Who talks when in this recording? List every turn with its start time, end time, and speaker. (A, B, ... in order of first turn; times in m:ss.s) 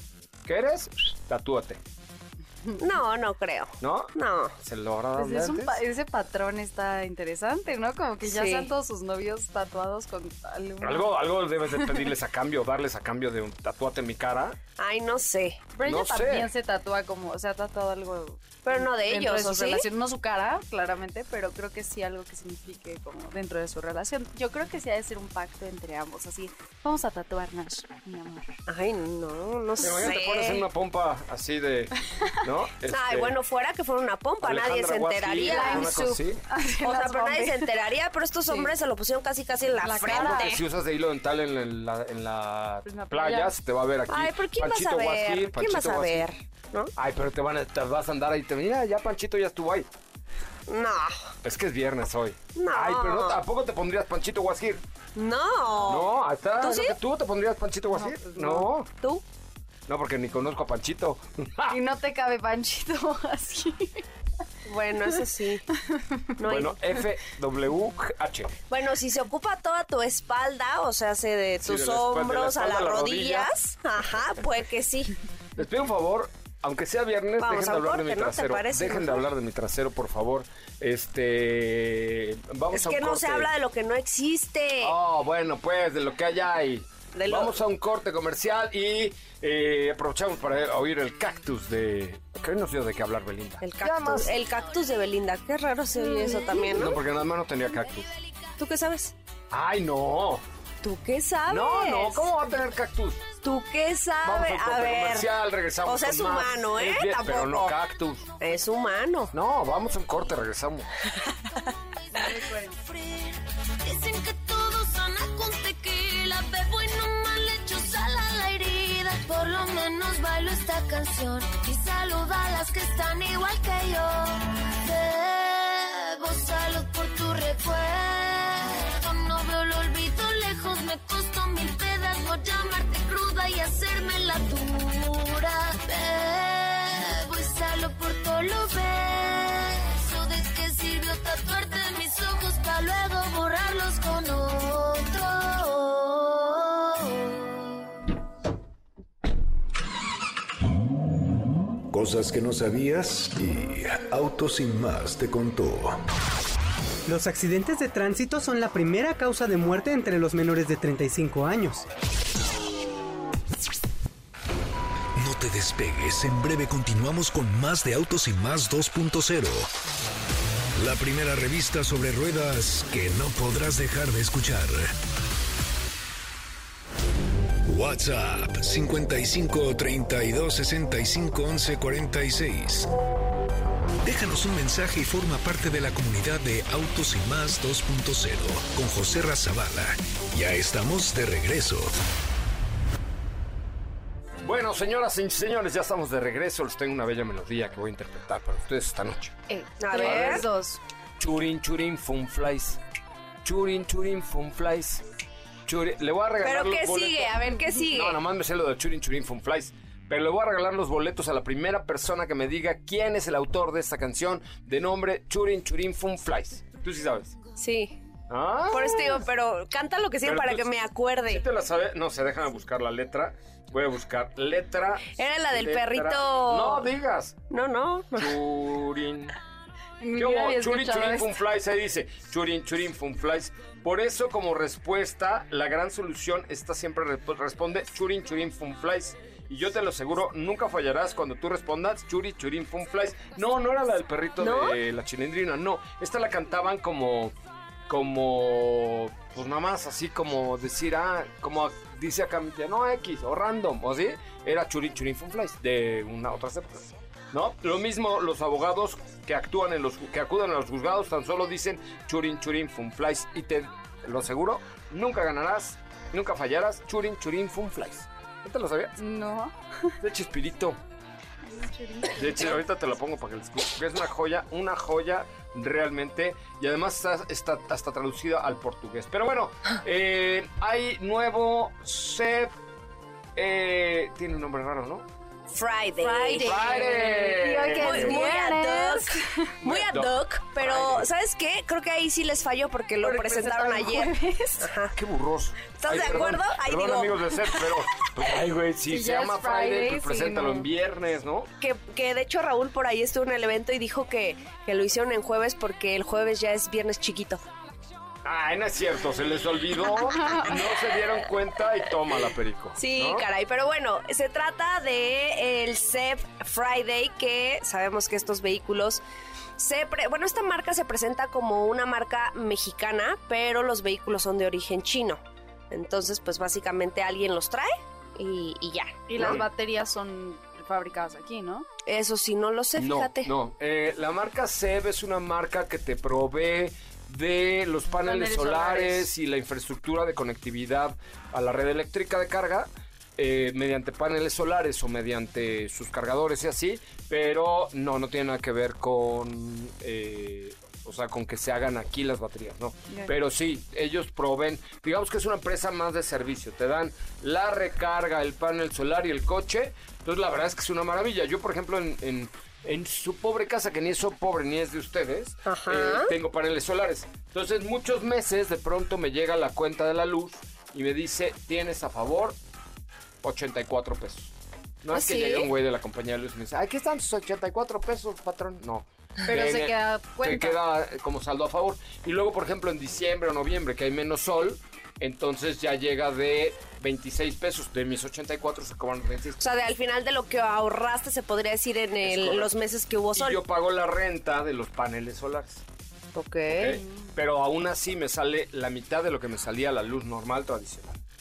0:00.4-0:01.8 A
0:02.8-0:04.5 B
0:03.8-0:05.8 A
0:05.2-0:11.2 C
0:08.2-0:08.7 B
0:10.8-0:14.6 A
0:11.7-0:12.1 C
0:14.8-0:15.6 B
0:15.7-0:28.5 C
0:15.8-0:16.5 A
0:18.6-0:19.8 B
0:28.7-0:30.6 B
0:29.8-0:33.3 A
0:32.9-0:36.1 B
0:34.4-0:36.4 A
0:35.4-0:37.7 C
0:36.8-0:40.5 B
0:38.5-0:38.7 C
0:39.8-0:40.6 C
0:40.0-0:46.2 A
0:42.8-0:43.5 C
0:44.1-0:46.9 B
0:47.0-0:49.9 A
0:50.7-0:51.3 B
0:51.4-0:54.8 A
0:52.5-0:53.4 B
0:55.1-0:57.0 B
0:55.8-0:58.9 A
0:57.9-0:58.7 C
0:59.9-1:01.8 A
1:01.7-1:04.0 C
1:04.6-1:05.6 B
1:05.8-1:06.2 C
1:06.4-1:06.8 B
1:06.4-1:08.5 A
1:08.7-1:15.2 B
1:11.6-1:13.5 A
1:15.6-1:23.5 A
1:17.4-1:19.2 B
1:22.7-1:24.9 B
1:24.8-1:34.3 A
1:27.1-1:27.6 B
1:33.6-1:37.0 B
1:36.6-1:38.1 A
1:38.6-1:39.1 B
1:39.5-1:40.4 A
1:40.8-1:42.3 B
1:41.5-1:43.2 A
1:43.4-1:45.3 B
1:44.2-1:48.3 A
1:45.8-1:47.7 B
1:48.4-1:49.3 B
1:49.3-1:51.0 A
1:52.1-1:52.8 C
1:52.8-2:26.9 D
2:31.9-2:36.0 E
2:37.1-2:41.8 F
2:45.2-2:49.7 E
2:50.7-2:54.9 E
2:57.6-3:02.9 E
3:04.0-3:12.0 E
3:14.4-3:19.3 A
3:19.5-3:20.8 C
3:19.8-3:20.4 B
3:19.9-3:20.5 A
3:21.2-3:22.8 A
3:23.4-3:25.0 A
3:25.6-3:37.3 A
3:26.4-3:28.2 B
3:37.6-3:38.0 B
3:38.3-3:39.2 A
3:38.7-3:41.4 B
3:40.2-3:40.7 A
3:41.3-3:47.4 A
3:45.1-3:46.9 B
3:47.5-3:48.3 B
3:48.2-3:49.4 A
3:50.0-3:51.3 C
3:50.2-4:07.3 A
4:04.4-4:04.8 B
4:07.9-4:29.0 A
4:29.0-4:29.9 C
4:30.0-4:30.8 A
4:31.4-4:32.6 C
4:32.1-4:42.5 A
4:43.4-4:45.0 A
4:45.5-4:47.1 B
4:46.0-4:49.5 C
4:46.4-4:48.3 A
4:47.7-4:55.0 B
4:49.6-4:51.1 A
4:53.0-4:54.7 C
4:54.9-5:01.5 A
4:55.7-4:57.6 B
4:58.9-5:00.7 C
5:01.6-5:07.4 B
5:08.2-5:13.2 A
5:10.2-5:10.5 C
5:12.8-5:19.0 B
5:19.6-5:29.4 B
5:29.1-5:31.7 C
5:29.2-5:29.4 A
5:31.8-5:33.3 B
5:32.8-6:12.4 A
5:38.0-5:39.1 C
6:05.4-6:06.1 B
6:13.2-6:29.4 A
6:14.9-6:15.5 B
6:19.3-6:20.6 C
6:29.4-6:33.4 B
6:32.0-6:32.5 A
6:33.1-6:35.6 A
6:36.1-6:36.8 B
6:36.5-6:41.0 A